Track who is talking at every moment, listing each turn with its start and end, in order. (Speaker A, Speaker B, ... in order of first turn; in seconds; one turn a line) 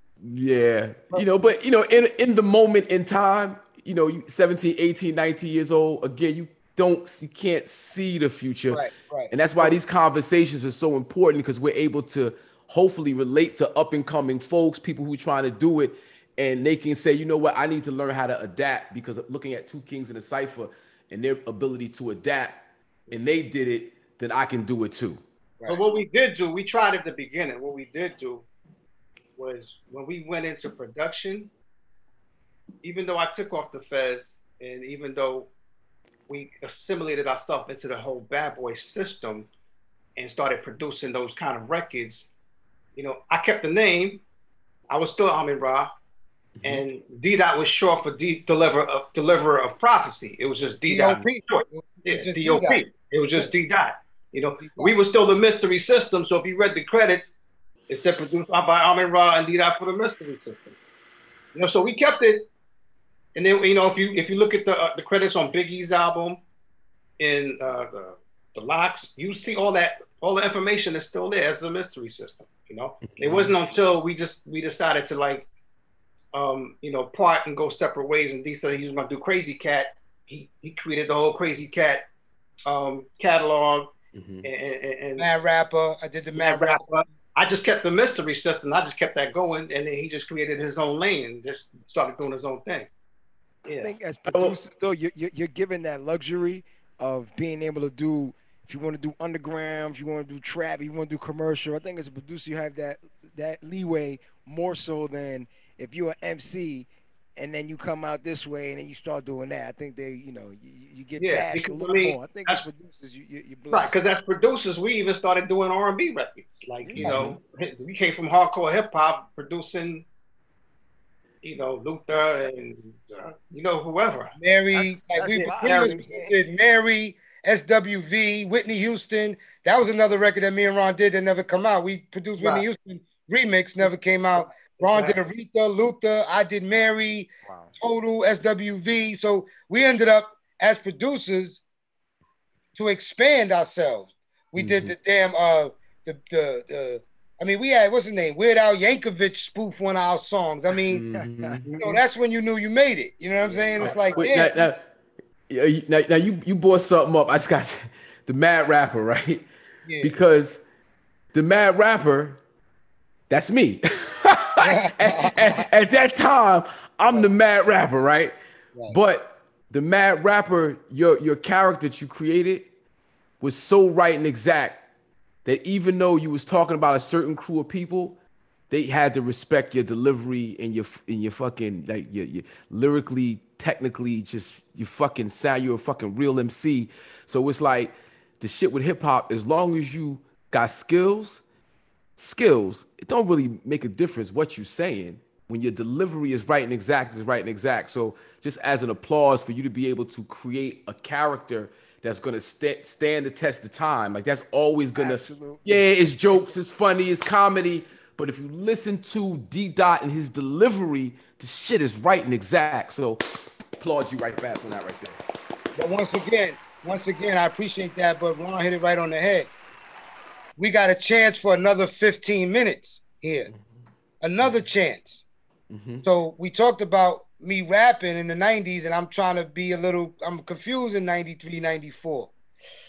Speaker A: 0.2-25.2
Speaker B: 8.7-9.8
Speaker C: 25.7-28.5
Speaker C: 29.4-31.5
Speaker C: 32.8-35.5
Speaker C: 36.3-39.5
Speaker C: 40.2-42.3
Speaker C: 43.0-44.2
Speaker C: 44.9-45.9
Speaker C: 46.6-57.3
Speaker B: 50.9-52.9
Speaker B: 54.6-55.0
Speaker C: 57.9-60.8
Speaker C: 61.5-62.5
Speaker C: 63.4-66.4
Speaker C: 67.2-75.5
Speaker A: 73.1-73.5
Speaker C: 76.3-82.1
Speaker C: 82.7-83.9
Speaker A: 84.2-84.5
Speaker C: 84.4-85.2
Speaker B: 85.2-86.9
Speaker C: 86.3-92.9
Speaker C: 93.7-93.9
Speaker D: 93.8-114.0
Speaker A: 94.3-94.6
Speaker C: 111.2-112.7
Speaker C: 113.7-120.1
Speaker D: 116.8-117.3
Speaker A: 117.0-117.4
Speaker C: 121.4-124.3
Speaker B: 124.4-141.6
Speaker D: 124.7-126.4
Speaker C: 125.6-126.0
Speaker C: 132.4-132.7
Speaker C: 134.4-135.2
Speaker D: 137.5-137.7
Speaker B: 142.8-151.0
Speaker A: 144.6-144.9
Speaker A: 150.9-151.7
Speaker D: 151.2-151.6
Speaker C: 151.7-152.0
Speaker B: 151.8-154.6
Speaker D: 153.4-154.2
Speaker C: 153.8-154.3
Speaker A: 153.8-154.9
Speaker A: 155.5-159.5
Speaker B: 159.9-160.2
Speaker A: 160.0-160.6
Speaker A: 161.3-162.4
Speaker A: 163.3-168.3
Speaker B: 164.6-165.6
Speaker A: 168.9-172.7
Speaker A: 173.4-174.8
Speaker A: 175.4-178.2
Speaker A: 178.7-191.4
Speaker A: 192.2-213.2
Speaker D: 205.0-205.7
Speaker A: 213.8-215.2
Speaker B: 215.8-219.5
Speaker B: 220.6-223.5
Speaker B: 224.2-225.2
Speaker A: 224.4-224.7
Speaker A: 225.7-226.1
Speaker B: 226.0-232.3